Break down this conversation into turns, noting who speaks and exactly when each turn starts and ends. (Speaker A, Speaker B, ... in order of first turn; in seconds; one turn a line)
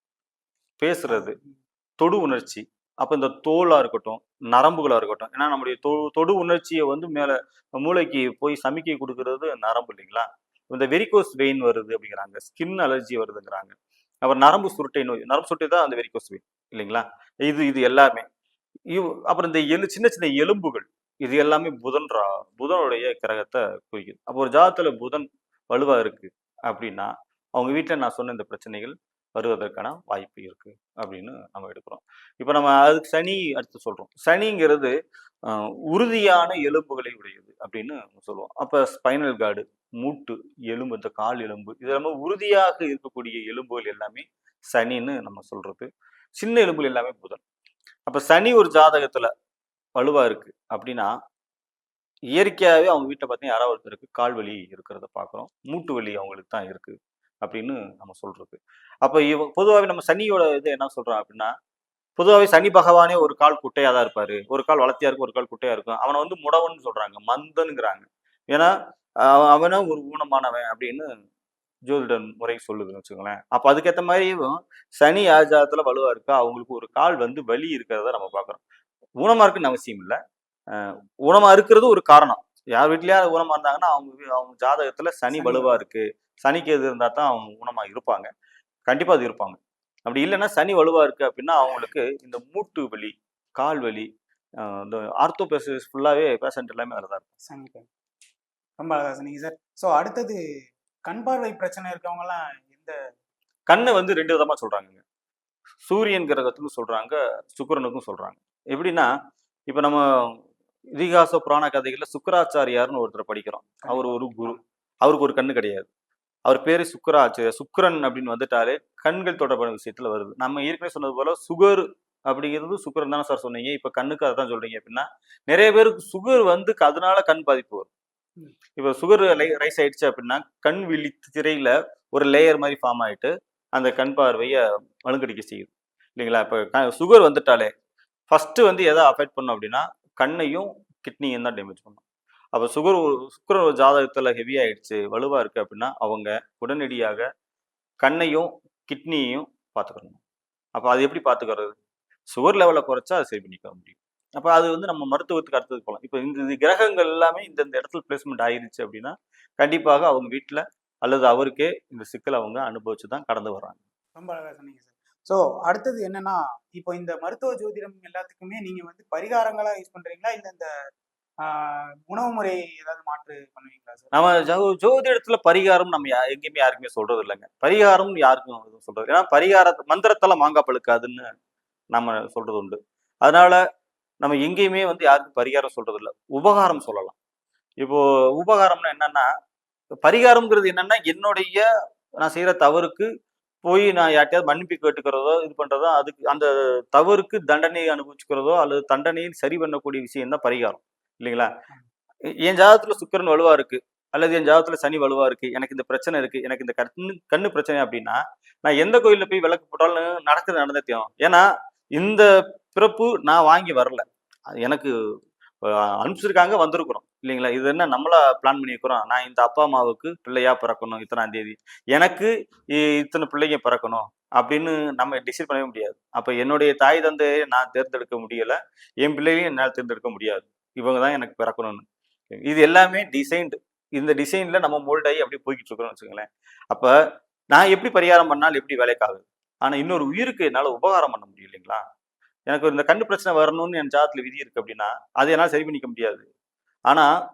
Speaker A: 0.8-1.4
Speaker B: 1.1-1.5
Speaker A: 2.0-18.2
Speaker A: 18.9-34.9
Speaker A: 35.5-47.4
Speaker A: 48.1-49.3
Speaker A: 50.0-51.1
Speaker A: 52.4-61.5
Speaker A: 62.2-68.7
Speaker A: 69.2-71.1
Speaker A: 71.9-78.6
Speaker A: 79.2-80.2
Speaker A: 80.7-88.3
Speaker B: 85.3-85.8
Speaker A: 88.9-94.1
Speaker A: 94.6-97.3
Speaker B: 97.5-97.9
Speaker B: 98.8-100.4
Speaker B: 101.1-103.0
Speaker A: 103.7-105.0
Speaker A: 105.8-109.1
Speaker A: 109.7-110.4
Speaker A: 111.0-115.9
Speaker B: 113.8-114.6
Speaker A: 116.5-127.9
Speaker A: 128.8-137.7
Speaker A: 138.3-142.0
Speaker A: 142.5-147.2
Speaker A: 148.0-150.2
Speaker A: 150.8-151.8
Speaker A: 152.3-163.8
Speaker B: 164.2-170.7
Speaker B: 171.4-174.1
Speaker A: 174.1-181.2
Speaker A: 181.9-183.6
Speaker A: 184.2-187.2
Speaker A: 187.8-189.3
Speaker A: 190.0-191.7
Speaker A: 192.2-193.1
Speaker A: 193.7-201.5
Speaker A: 202.4-211.4
Speaker A: 212.0-214.0
Speaker A: 214.6-214.9
Speaker A: 215.6-231.8
Speaker A: 232.4-236.9
Speaker A: 237.5-241.8
Speaker A: 242.5-246.3